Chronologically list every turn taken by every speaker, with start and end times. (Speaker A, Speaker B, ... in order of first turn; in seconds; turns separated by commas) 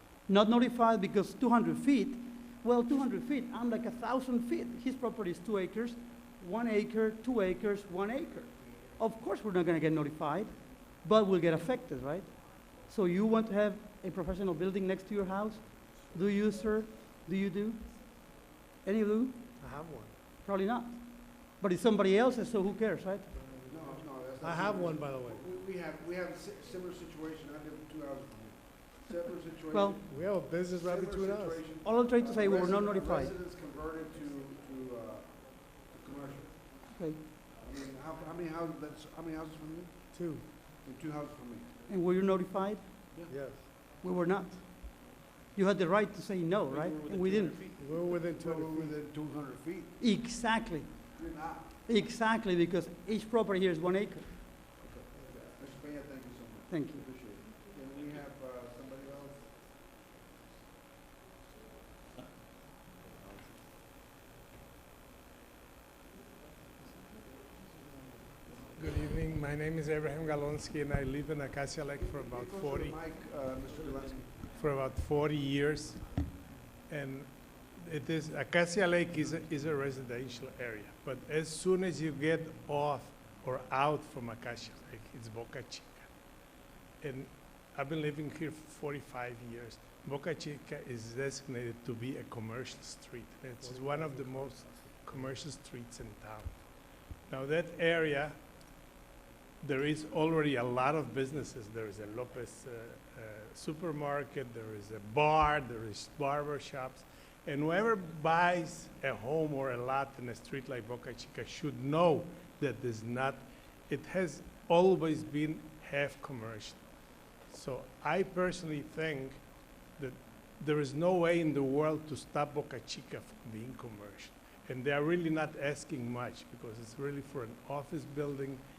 Speaker A: 0.3-17.8, Speaker A: 18.8-19.4, Speaker B: 19.6-20.1, Speaker A: 20.4-23.2, Speaker C: 23.6-30.0, Speaker B: 24.4-25.4, Speaker A: 29.7-30.0, Speaker B: 30.1-31.6, Speaker C: 30.8-36.6, Speaker A: 31.8-33.3, Speaker A: 36.9-37.2, Speaker C: 37.6-40.0, Speaker B: 40.1-40.5, Speaker C: 40.7-41.7, Speaker A: 41.9-43.0, Speaker B: 43.3-43.6, Speaker A: 44.0-45.0, Speaker A: 45.5-47.6, Speaker B: 47.8-48.9, Speaker C: 47.8-50.0, Speaker A: 50.0-51.0, Speaker C: 51.1-51.7, Speaker A: 51.9-54.4, Speaker C: 54.8-59.5, Speaker A: 56.7-57.0, Speaker D: 68.8-73.0, Speaker C: 72.0-74.3, Speaker D: 74.5-76.1, Speaker D: 76.9-86.1, Speaker D: 87.0-96.5, Speaker B: 93.6-95.2, Speaker D: 97.3-98.3, Speaker D: 99.6-116.8, Speaker D: 117.5-119.4, Speaker D: 120.0-128.6